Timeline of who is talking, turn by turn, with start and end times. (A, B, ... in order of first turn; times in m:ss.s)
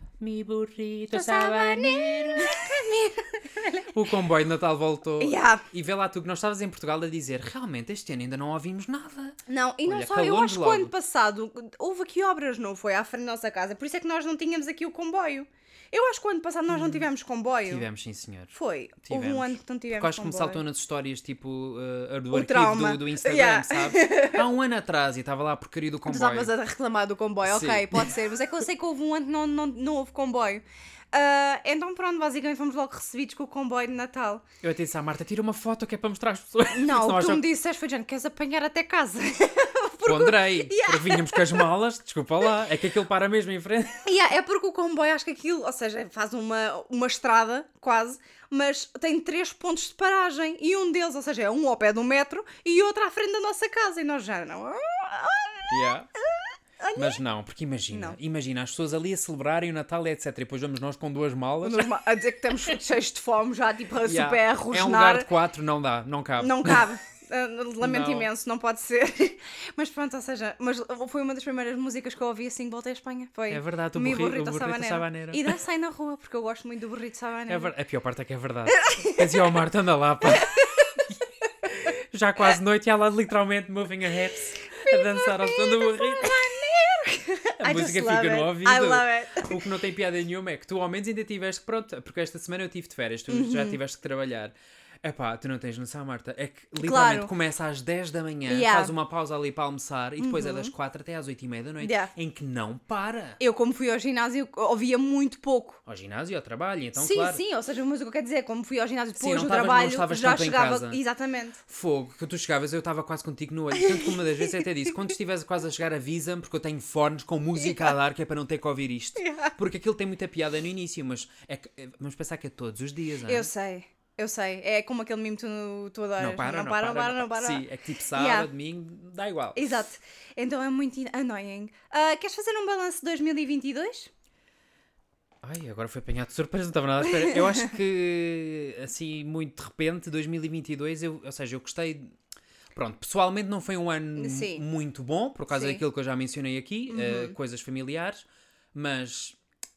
0:00.2-0:02.8 A
0:01.1-0:04.0 B
0:03.9-0:10.9 A
0:05.2-0:05.6 B
0:09.5-0:17.9 B
0:16.7-0:17.1 A
0:17.7-0:18.5 A
0:18.5-0:20.6 B
0:19.0-0:26.5 A
0:22.3-0:24.4 B
0:26.1-0:34.4 B
0:27.4-0:28.2 A
0:34.6-0:37.4 A
0:36.7-0:41.7 B
0:40.1-0:44.1 A
0:44.1-0:57.2 B
0:55.7-0:56.1 A
0:57.0-1:01.9 A
0:57.9-0:58.2 B
1:01.6-1:05.3 B
1:04.0-1:06.9 A
1:06.4-1:17.7 B
1:07.8-1:08.3 A
1:13.5-1:15.6 A
1:17.5-1:26.5 A
1:18.7-1:19.4 B
1:20.3-1:20.9 B
1:24.7-1:29.6 B
1:27.6-1:43.4 A
1:33.3-1:33.8 B
1:36.8-1:37.3 B
1:38.5-1:38.9 B
1:40.2-1:40.7 B
1:41.8-1:42.1 B
1:43.4-1:45.8 B
1:45.9-1:47.4 A
1:47.0-1:51.6 B
1:49.2-1:51.0 A
1:51.7-2:03.5 A
1:53.8-1:54.6 B
1:57.6-1:57.9 B
1:59.2-1:59.6 B
2:03.3-2:08.5 B
2:06.2-2:09.8 A
2:09.6-2:14.1 B
2:15.4-2:22.1 A
2:17.0-2:17.7 B
2:22.7-2:29.4 A
2:24.2-2:24.6 B
2:25.5-2:25.8 B
2:26.9-2:27.4 B